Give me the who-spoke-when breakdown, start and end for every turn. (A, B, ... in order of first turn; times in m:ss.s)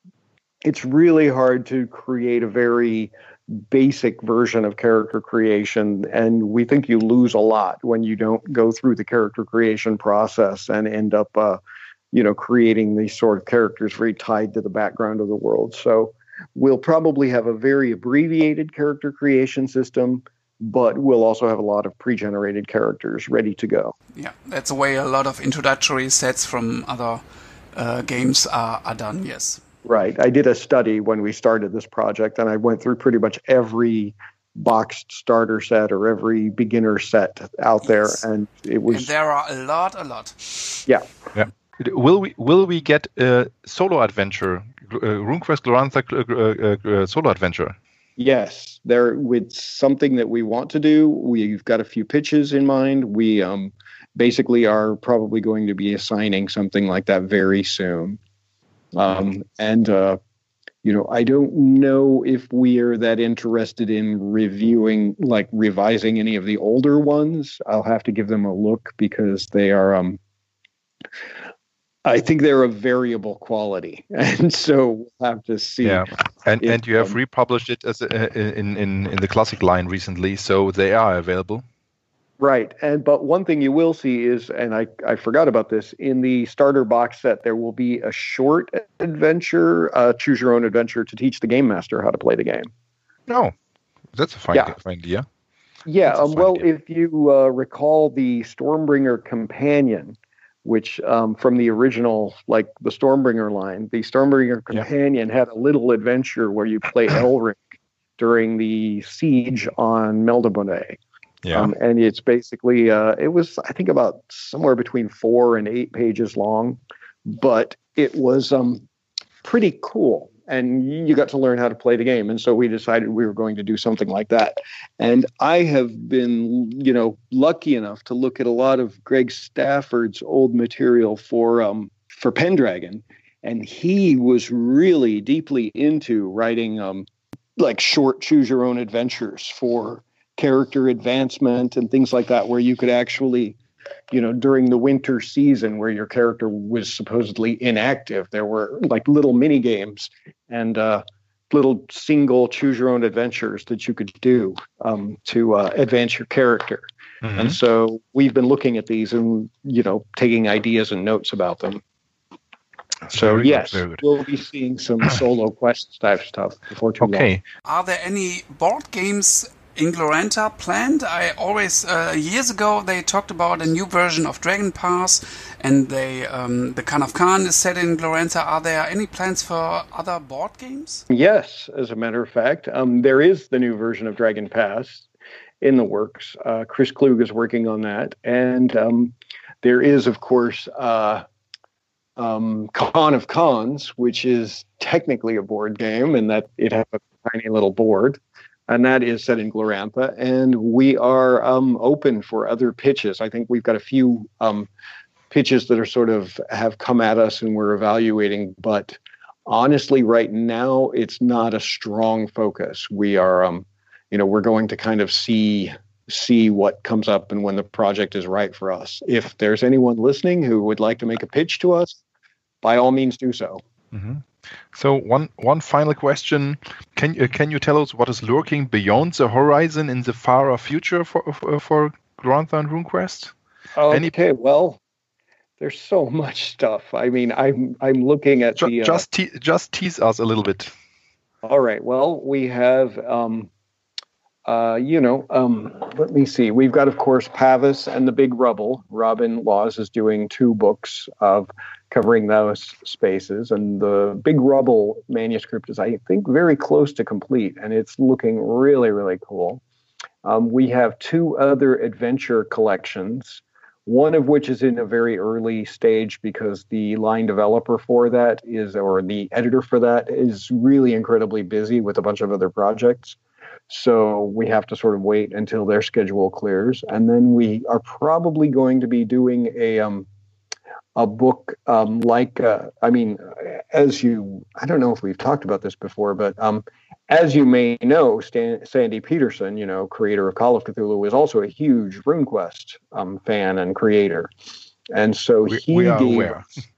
0:00.6-0:11.6 A
0:12.1-0:23.9 A
0:24.1-0:27.2 B
0:27.7-0:29.6 B
0:29.8-0:39.1 A
0:38.9-0:40.8 B
0:41.3-0:47.8 C
0:48.2-0:58.2 A
0:58.9-1:00.2 A
1:00.8-1:10.2 A
1:12.0-1:16.1 A
1:15.8-1:21.6 C
1:16.6-1:17.2 A
1:22.4-1:32.7 A
1:33.3-1:33.5 C
1:34.1-1:35.2 C
1:35.8-1:47.6 A
1:36.1-1:36.6 C
1:48.2-1:51.0 A
1:51.4-1:51.7 C
1:51.5-1:58.8 A
1:59.4-2:17.0 A
2:17.6-2:23.6 A
2:24.1-2:41.8 A
2:37.2-2:37.6 C
2:43.1-2:44.0 C
2:43.1-2:47.3 A
2:47.0-2:47.4 C
2:47.6-3:01.0 B
3:01.1-3:05.1 A
3:05.6-3:11.2 A
3:12.2-3:24.7 A
3:25.3-3:42.0 A
3:42.6-3:43.6 A
3:43.9-3:53.3 C
3:53.8-3:54.8 A
3:55.6-3:59.0 A
3:58.6-4:00.7 C
4:01.4-4:03.5 A
4:04.4-4:19.6 A
4:20.2-4:33.2 A
4:33.7-4:40.1 A
4:41.0-4:54.3 A
4:54.9-4:56.4 A
4:55.5-4:56.4 C